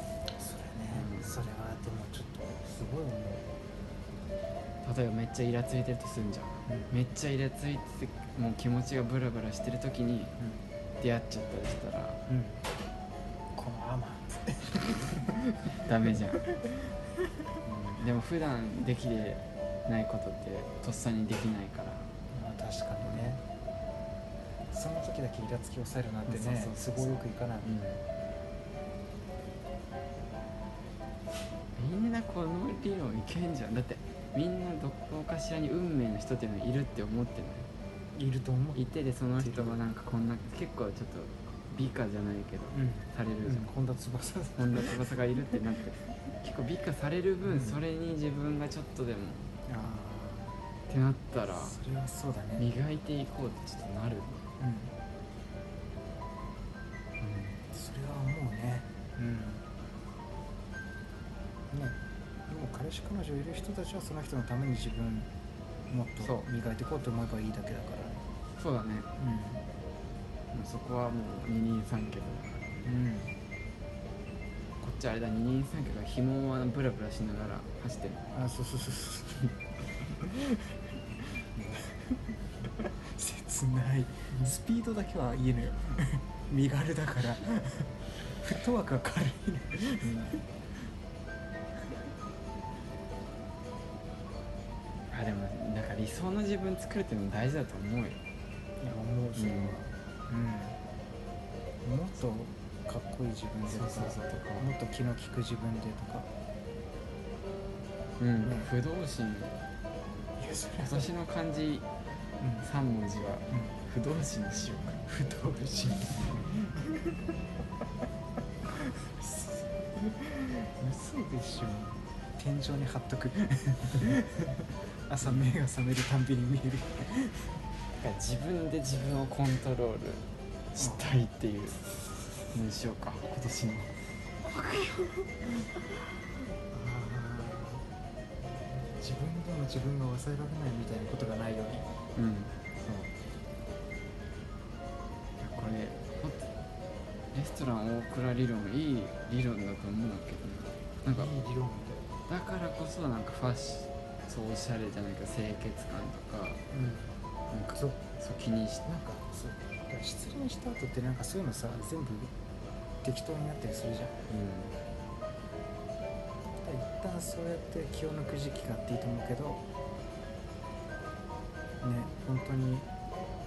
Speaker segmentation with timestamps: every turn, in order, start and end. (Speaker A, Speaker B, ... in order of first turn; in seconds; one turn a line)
Speaker A: 0.3-3.5
Speaker B: 0.9-1.4
Speaker B: 4.8-10.3
Speaker A: 6.7-6.9
Speaker A: 10.4-10.7
Speaker B: 11.0-12.2
Speaker A: 12.3-12.7
Speaker A: 13.6-16.8
Speaker B: 15.7-16.4
Speaker B: 17.6-22.1
Speaker A: 22.3-23.4
Speaker B: 23.0-23.4
Speaker A: 24.7-27.7
Speaker B: 26.3-28.0
Speaker B: 31.8-37.7
Speaker A: 38.1-38.8
Speaker B: 38.8-43.7
Speaker A: 39.4-39.8
Speaker A: 42.7-46.0
Speaker B: 44.6-49.5
Speaker A: 47.5-47.8
Speaker A: 49.7-50.6
Speaker B: 50.9-51.8
Speaker A: 51.5-52.7
Speaker B: 52.6-54.4
Speaker A: 54.6-54.9
Speaker B: 57.2-57.6
Speaker A: 57.7-59.7
Speaker A: 61.7-65.3
Speaker A: 65.9-68.2
Speaker B: 66.2-66.5
Speaker B: 68.6-69.1
Speaker A: 69.2-69.6
Speaker B: 70.5-72.7
Speaker A: 72.8-73.3
Speaker B: 74.8-78.4
Speaker A: 78.3-80.8
Speaker A: 81.8-82.2
Speaker A: 82.8-90.4
Speaker B: 90.0-90.4
Speaker B: 95.1-98.2
Speaker A: 98.8-100.8
Speaker B: 99.4-99.8
Speaker A: 101.8-106.3
Speaker B: 103.6-104.7
Speaker B: 108.2-109.5
Speaker A: 108.4-108.7
Speaker A: 110.4-111.1
Speaker B: 110.9-111.9
Speaker A: 112.4-112.7
Speaker B: 112.6-115.0
Speaker A: 113.5-113.8
Speaker A: 115.1-116.9
Speaker A: 118.7-127.5
Speaker B: 125.2-125.5
Speaker B: 128.0-131.9
Speaker A: 130.8-131.2
Speaker B: 132.5-135.6
Speaker A: 136.7-137.9
Speaker A: 138.7-141.9
Speaker B: 142.2-143.1
Speaker B: 145.4-146.5
Speaker B: 147.3-151.3
Speaker A: 151.1-152.1
Speaker B: 152.3-156.6
Speaker A: 156.7-157.2
Speaker B: 157.5-158.8
Speaker A: 157.7-158.0
Speaker A: 158.8-162.3
Speaker A: 163.0-164.2
Speaker B: 164.3-164.8
Speaker A: 166.6-169.6
Speaker A: 171.8-172.9